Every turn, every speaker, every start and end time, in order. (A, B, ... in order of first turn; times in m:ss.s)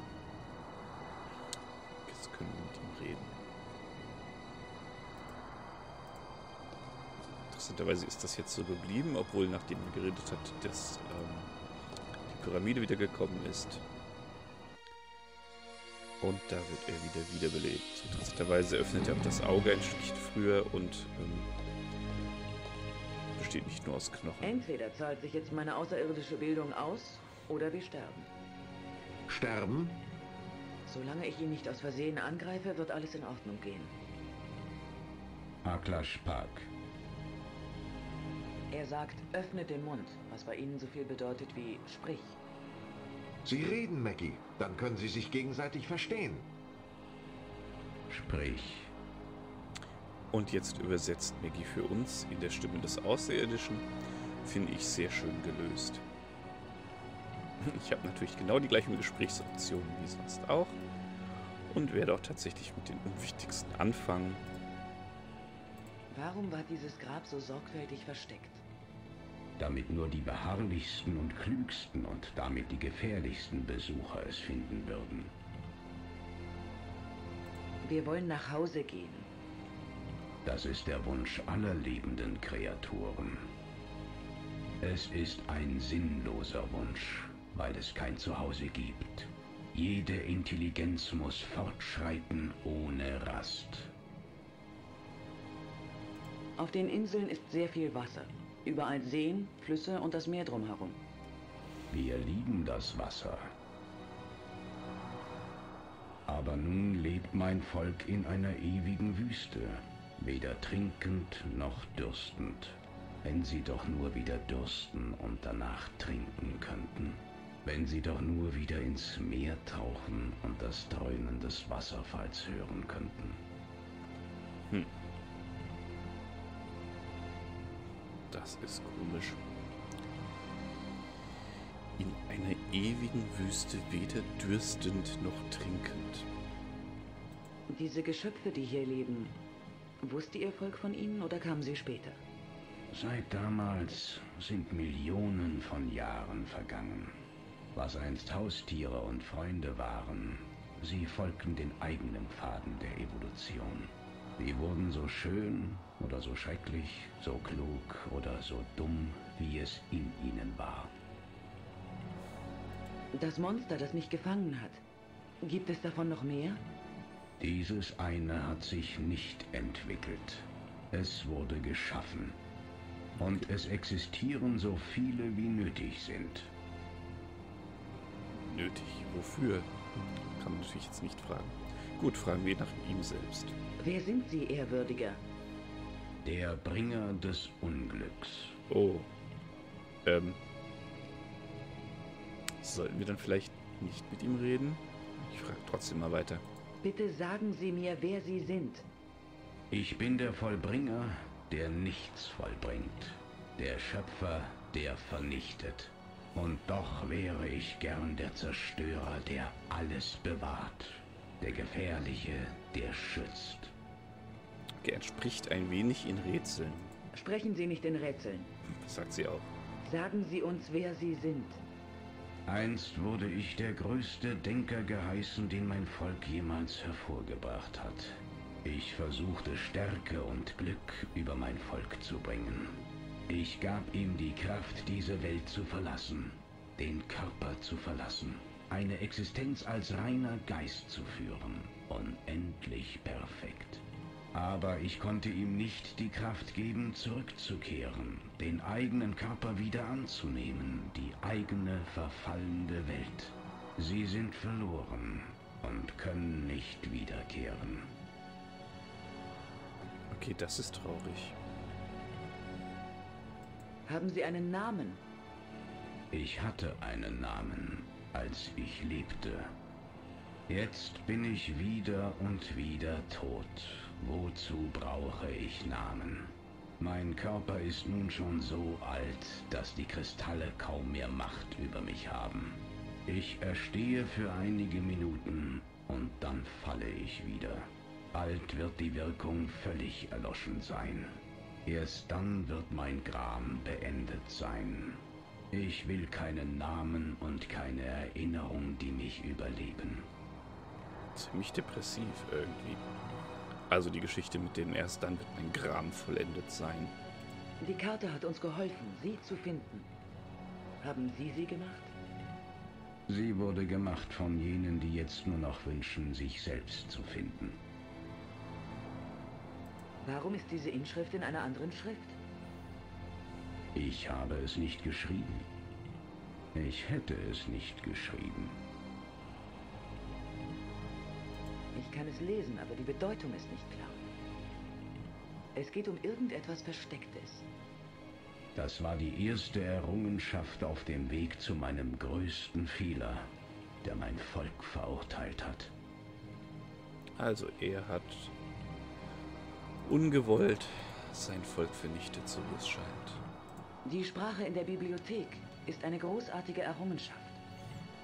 0:02.0-0:03.4 A
0:07.5-0:11.5 A
0:12.2-0:13.8 A
0:16.2-0:21.5 A
0:23.3-0:24.6 A
0:24.4-0:28.3 B
0:29.3-0:30.0 C
0:30.8-0:33.9 B
0:35.6-0:36.7 D
0:38.7-0:42.4 B
0:43.4-0:46.5 C
0:48.1-0:48.9 D
0:50.3-0:53.8 A
0:54.4-0:56.0 A
0:57.6-1:00.8 A
1:01.7-1:04.4 A
1:06.1-1:08.6 B
1:09.6-1:15.3 D
1:17.8-1:19.3 B
1:20.4-1:23.5 D
1:24.8-1:33.9 D
1:36.6-1:41.0 B
1:41.9-1:43.5 D
1:46.3-2:03.4 D
2:08.3-2:09.4 A
2:12.0-2:16.3 A
2:17.7-2:19.3 B
2:20.0-2:22.2 B
2:22.9-2:27.2 D
2:27.7-2:40.9 D
2:43.1-2:44.8 B
2:45.4-2:46.6 B
2:47.4-2:52.4 D
2:53.2-2:56.5 D
2:58.4-3:03.6 A
3:03.8-3:05.2 B
3:06.2-3:08.6 D
3:08.7-3:09.1 A
3:10.0-3:10.4 A
3:12.6-3:16.4 A
3:16.8-3:18.9 B
3:19.7-3:33.7 D
3:34.8-3:36.9 A
3:37.1-3:38.5 B
3:38.7-3:39.5 A
3:39.8-3:41.6 B
3:42.5-4:18.0 D
4:20.1-4:21.4 A
4:23.8-4:25.0 B
4:26.1-4:29.5 D
4:30.5-5:00.1 D
5:01.1-5:02.8 A
5:03.7-5:06.9 A
5:07.6-5:09.9 B
5:10.8-5:11.9 B
5:13.1-5:17.6 D
5:20.0-5:22.2 B
5:23.7-5:25.5 D
5:26.5-5:28.6 D
5:31.7-5:34.0 B
5:35.5-5:37.5 B
5:38.5-5:43.3 D
5:43.8-5:45.7 D
5:47.2-5:48.3 A
5:49.8-5:53.2 A
5:53.8-5:57.4 B